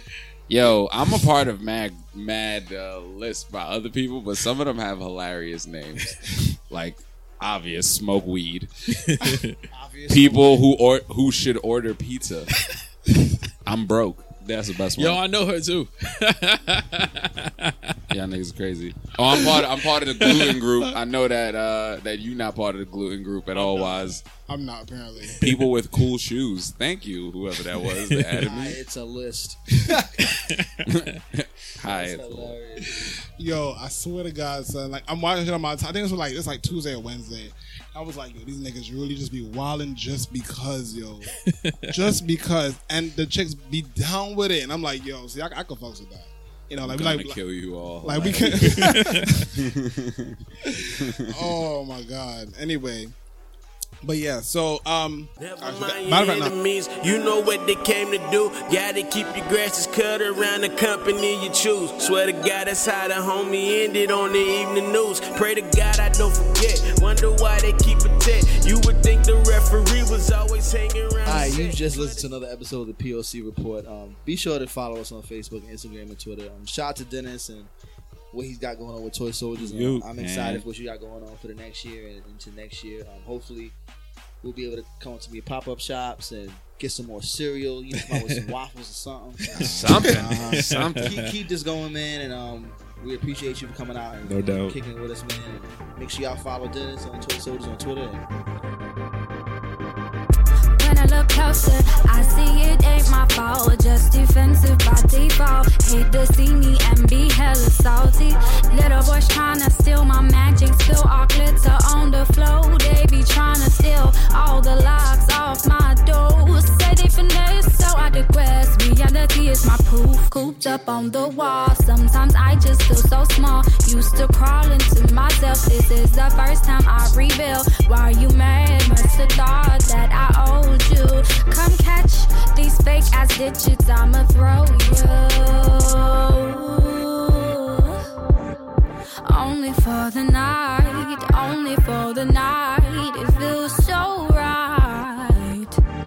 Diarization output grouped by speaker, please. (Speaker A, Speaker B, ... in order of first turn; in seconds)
Speaker A: 0.5-8.7, 10.1-12.5, 13.7-15.2, 18.1-24.2, 25.4-28.7, 30.9-32.6, 46.8-49.0, 49.5-50.3, 50.8-51.3, 80.2-80.6, 89.6-91.0
Speaker B: 8.9-9.6, 15.0-17.9, 19.3-20.9, 28.0-28.6, 30.2-30.9, 48.8-49.3, 79.5-80.1, 89.4-89.7, 90.4-91.3, 94.2-94.8
Speaker C: 9.7-10.6, 28.4-30.2, 31.8-33.2, 71.2-77.7, 78.3-83.8, 84.4-89.5, 90.9-98.2, 120.8-121.8
Speaker D: 23.5-25.4, 33.3-41.4, 41.9-47.4, 48.0-49.5, 51.3-53.1, 54.0-56.5, 89.5-90.7, 120.5-121.2
Speaker E: 55.4-72.3
Speaker F: 100.8-138.0, 139.3-145.8